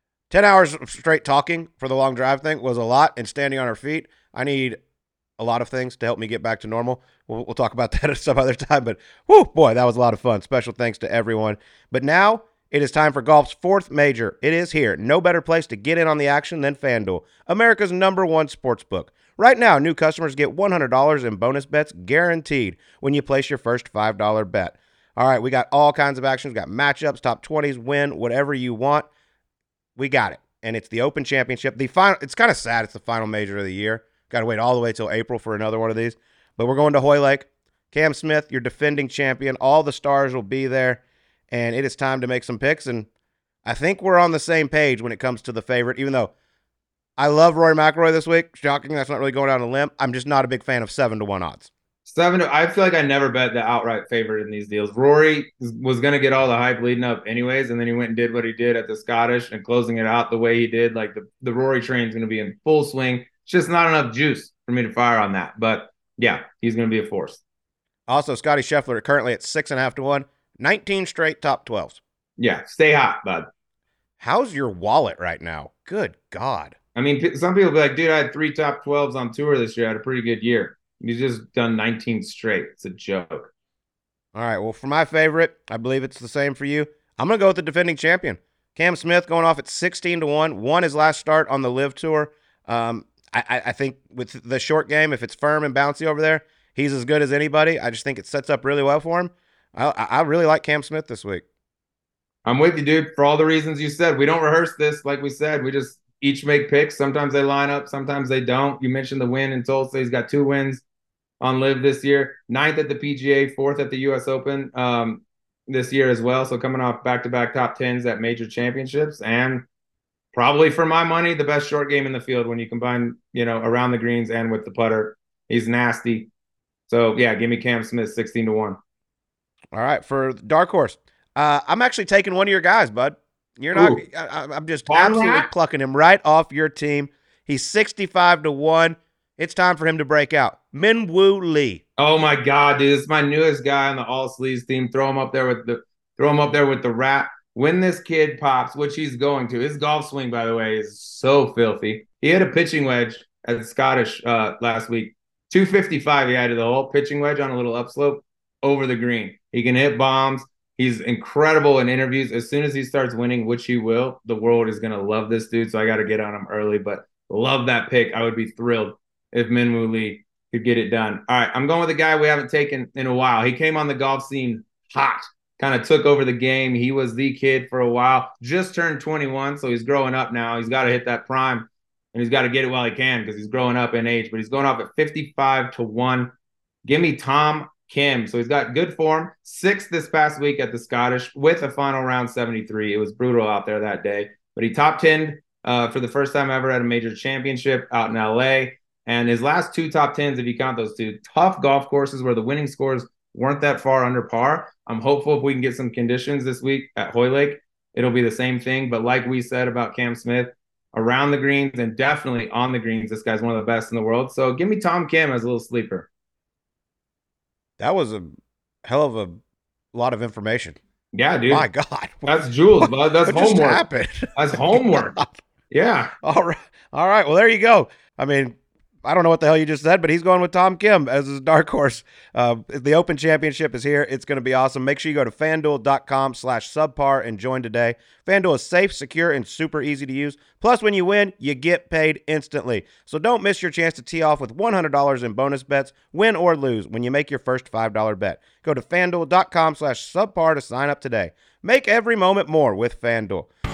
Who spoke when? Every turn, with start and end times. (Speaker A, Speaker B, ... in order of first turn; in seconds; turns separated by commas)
Speaker A: 0.3-4.8, Speaker A: 5.4-29.1, Speaker A: 30.0-43.1, Speaker A: 43.6-46.3, Speaker A: 47.2-51.7, Speaker B: 52.1-67.4, Speaker A: 68.1-72.0, Speaker B: 72.4-73.5, Speaker A: 74.2-76.7, Speaker B: 77.0-83.5, Speaker A: 84.3-101.4, Speaker B: 102.5-110.8, Speaker B: 111.4-119.6, Speaker B: 120.3-126.2, Speaker B: 126.9-128.8, Speaker A: 129.7-141.8, Speaker B: 133.7-134.0, Speaker B: 134.9-135.5, Speaker B: 142.0-186.3, Speaker B: 186.8-216.1, Speaker A: 217.8-218.3, Speaker A: 218.8-219.4, Speaker A: 219.9-220.8, Speaker B: 221.2-221.6, Speaker A: 221.5-222.3, Speaker B: 222.2-223.8, Speaker A: 222.8-225.3, Speaker B: 224.4-225.2, Speaker B: 225.7-226.1, Speaker A: 226.2-253.5